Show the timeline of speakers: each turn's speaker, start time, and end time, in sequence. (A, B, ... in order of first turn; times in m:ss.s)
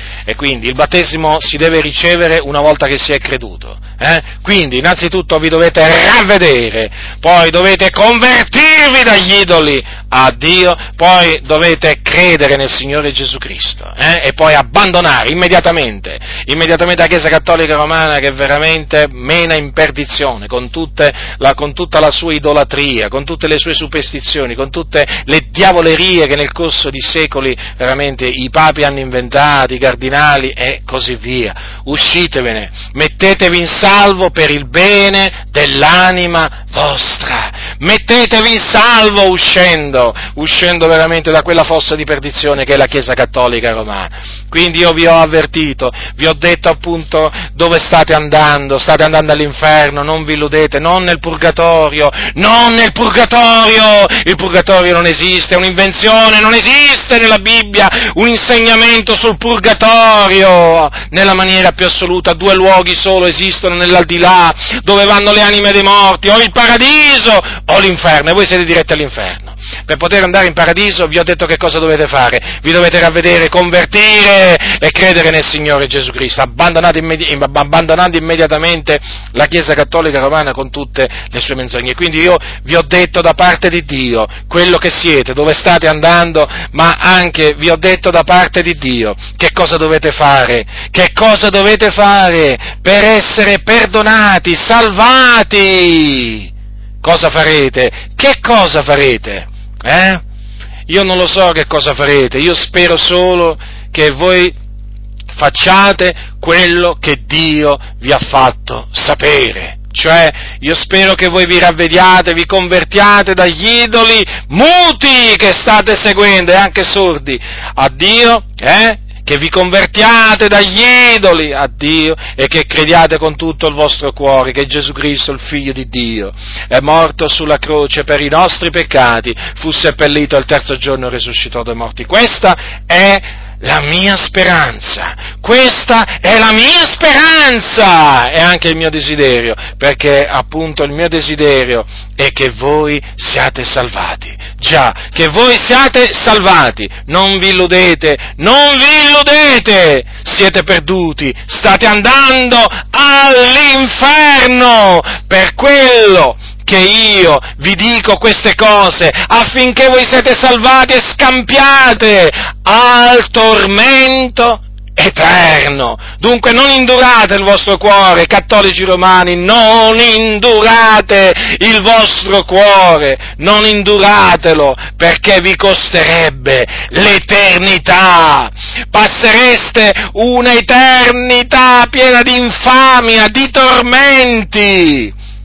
0:00.3-1:36.5 A
1:37.0-1:40.2 A
1:40.9-1:44.5 A
1:45.3-3:05.1 A